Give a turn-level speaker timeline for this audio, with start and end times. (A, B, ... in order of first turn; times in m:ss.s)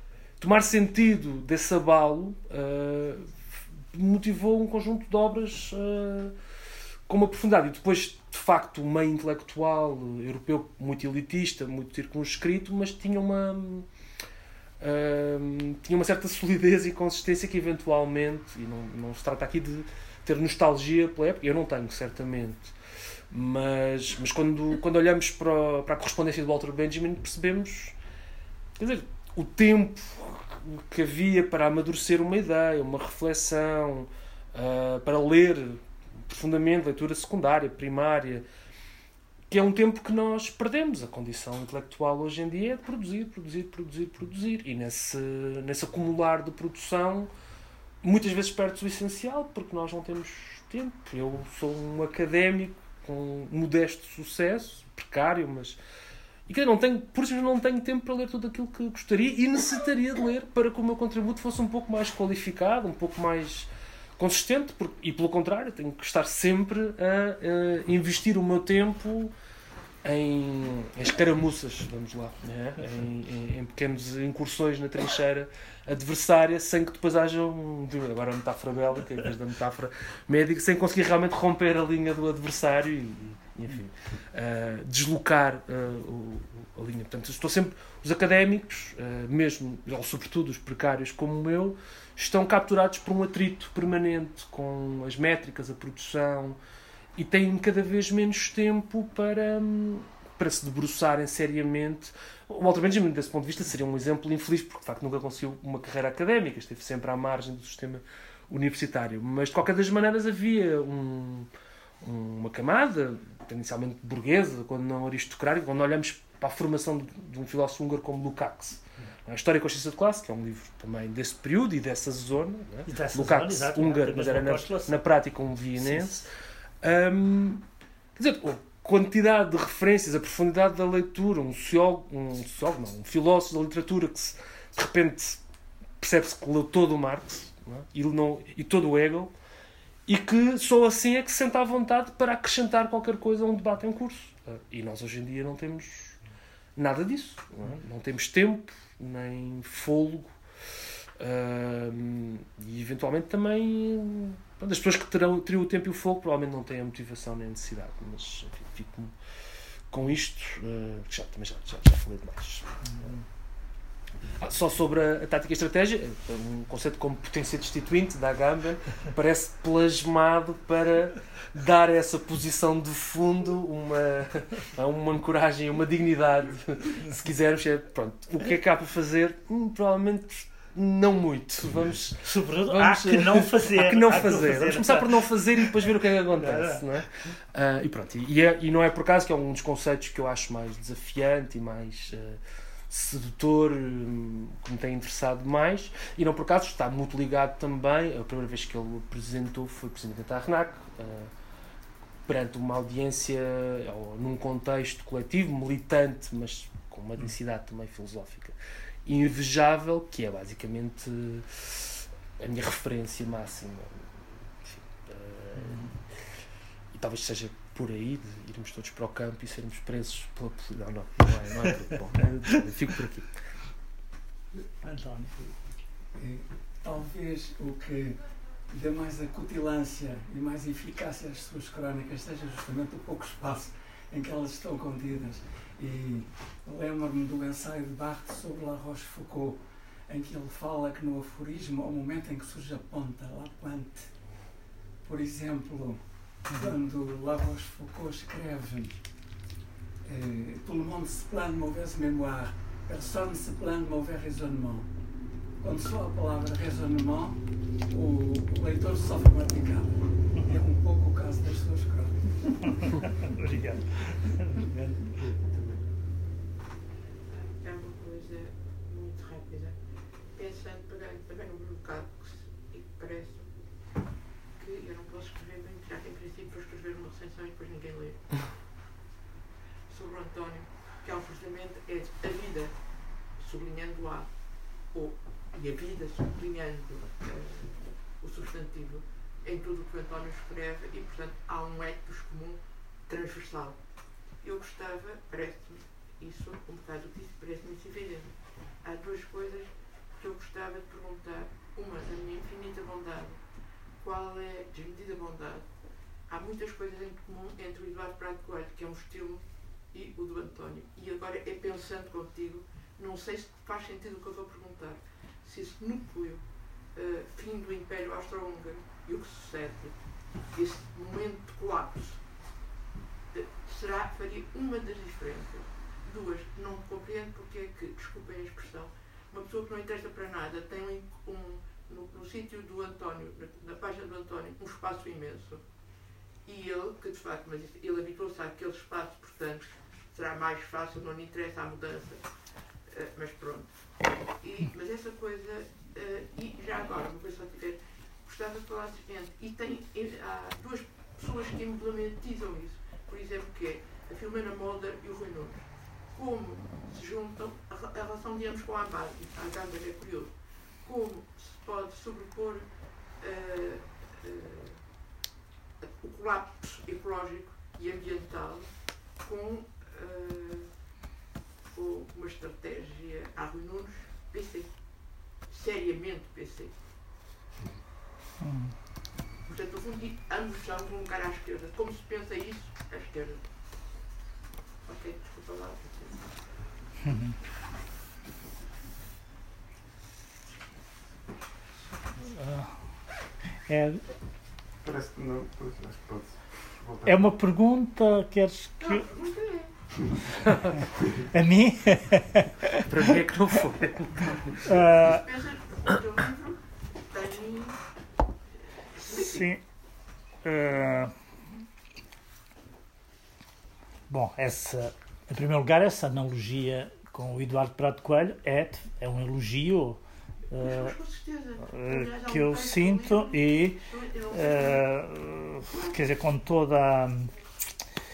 0:00.4-0:03.3 A
0:03.9-0:06.3 A
0:07.1-0:13.9 A
0:14.8-0:22.7 A
0:23.3-0:28.0 A
0:28.8-0:38.4 A
0:39.5-0:47.3 A
0:48.0-0:55.8 A
0:56.5-1:09.3 A
1:10.0-1:36.6 A
1:37.2-1:51.5 A
1:52.0-2:06.3 A
2:02.9-2:05.0 B
2:06.8-2:07.6 A
2:08.2-2:15.4 A
2:16.0-2:19.3 A
2:20.1-2:26.2 A
2:26.8-2:30.3 A
2:31.2-2:39.1 A
2:39.9-2:43.1 A
2:43.0-2:43.2 B
2:44.4-3:21.3 A
3:02.2-3:05.2 B
3:06.4-3:06.8 B
3:22.3-3:36.0 A
3:35.6-3:35.9 B
3:36.9-3:43.4 A
3:44.8-3:45.3 B
3:46.1-4:04.4 C
4:05.0-4:09.0 C
4:10.0-4:14.9 C
4:15.6-4:22.9 C
4:22.8-4:25.2 B
4:25.2-4:25.9 D
4:27.3-4:29.8 E
4:30.3-4:33.5 E
4:34.6-4:38.6 E
4:39.9-4:42.8 E
4:43.3-4:44.3 E
4:44.9-4:53.8 E
4:54.4-5:03.4 E
5:04.0-5:05.7 E
5:06.3-5:19.9 E
5:20.5-5:22.2 E
5:23.3-5:35.6 E
5:36.4-5:42.2 E
5:42.9-5:43.7 E
5:44.3-6:02.7 E
6:03.2-6:04.9 E
6:05.8-6:08.7 E
6:09.2-6:10.7 E
6:11.7-6:14.7 E
6:15.5-6:16.7 E
6:18.4-6:18.7 B
6:19.5-6:23.4 E
6:24.8-6:26.4 E
6:27.0-6:27.4 B
6:32.2-6:32.7 B
6:33.7-6:34.0 B
6:34.8-6:37.3 D
6:37.0-6:39.0 B
6:38.8-6:39.7 E
6:41.1-6:42.9 B
6:42.8-6:44.6 A
6:44.6-6:45.3 B
6:44.6-6:47.8 E
6:48.9-6:49.5 E
6:49.1-6:49.6 B
6:50.4-6:51.1 B
6:54.1-7:00.0 B
7:00.5-7:01.0 B
7:00.6-7:04.9 E
7:01.6-7:07.3 B
7:05.7-7:06.0 E